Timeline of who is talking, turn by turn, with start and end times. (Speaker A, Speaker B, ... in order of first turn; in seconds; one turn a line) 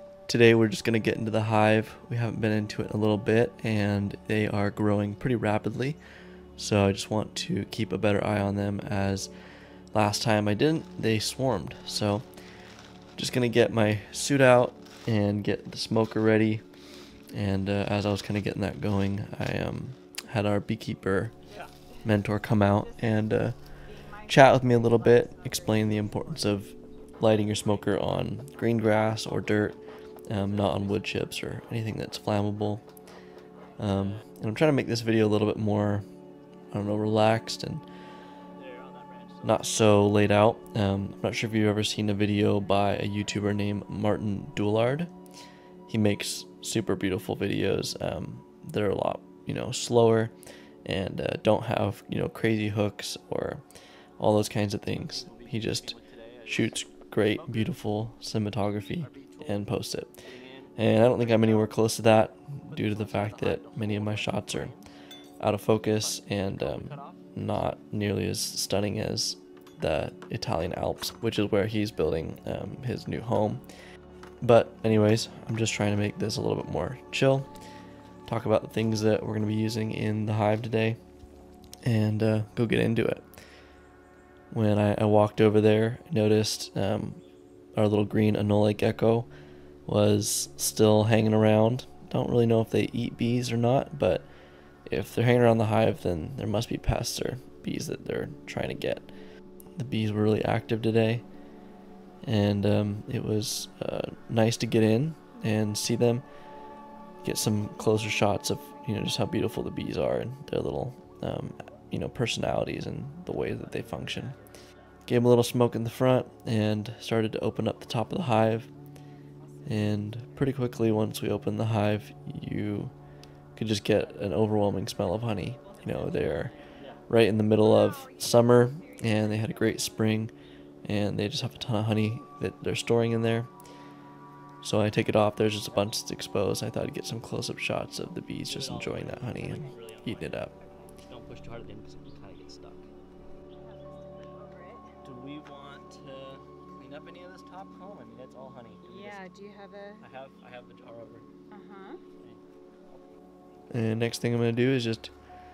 Speaker A: 0.3-6.0
Speaker A: 6.6-9.3
Speaker A: 9.9-12.2
Speaker A: 13.2-16.6
Speaker A: 17.3-21.3
Speaker B: 21.5-22.0
Speaker A: 22.0-23.6
Speaker B: 22.7-26.6
Speaker A: 24.2-29.8
Speaker B: 27.3-27.9
Speaker B: 28.6-29.7
Speaker A: 30.3-32.8
Speaker C: 30.4-31.2
Speaker A: 33.8-36.0
Speaker C: 33.9-34.2
Speaker A: 36.7-37.8
Speaker C: 38.5-39.7
Speaker A: 39.4-45.1
Speaker A: 45.9-50.3
Speaker A: 50.8-53.6
Speaker A: 54.2-60.2
Speaker C: 54.9-57.9
Speaker C: 58.8-59.7
Speaker C: 60.2-61.7
Speaker A: 60.8-64.7
Speaker C: 62.6-64.9
Speaker A: 65.4-73.6
Speaker C: 65.8-67.3
Speaker A: 74.4-77.5
Speaker A: 78.2-81.0
Speaker A: 81.8-83.2
Speaker A: 84.5-87.2
Speaker A: 87.7-89.3
Speaker A: 89.8-94.3
Speaker A: 94.8-99.1
Speaker A: 99.8-101.2
Speaker A: 102.2-106.2
Speaker A: 107.2-114.3
Speaker C: 113.3-114.9
Speaker A: 115.1-118.7
Speaker B: 119.4-120.6
Speaker A: 119.6-122.9
Speaker A: 123.5-126.5
Speaker C: 123.9-124.2
Speaker B: 124.7-126.9
Speaker C: 126.8-127.0
Speaker A: 127.1-130.3
Speaker B: 127.5-130.2
Speaker A: 130.8-133.5
Speaker A: 134.6-140.5
Speaker C: 135.6-135.9
Speaker C: 138.4-140.4
Speaker B: 139.4-139.7
Speaker B: 140.6-140.9
Speaker C: 141.0-142.9
Speaker B: 143.5-144.9
Speaker C: 145.0-149.2
Speaker B: 148.8-150.0
Speaker C: 150.0-151.3
Speaker B: 151.5-152.0
Speaker A: 153.7-155.1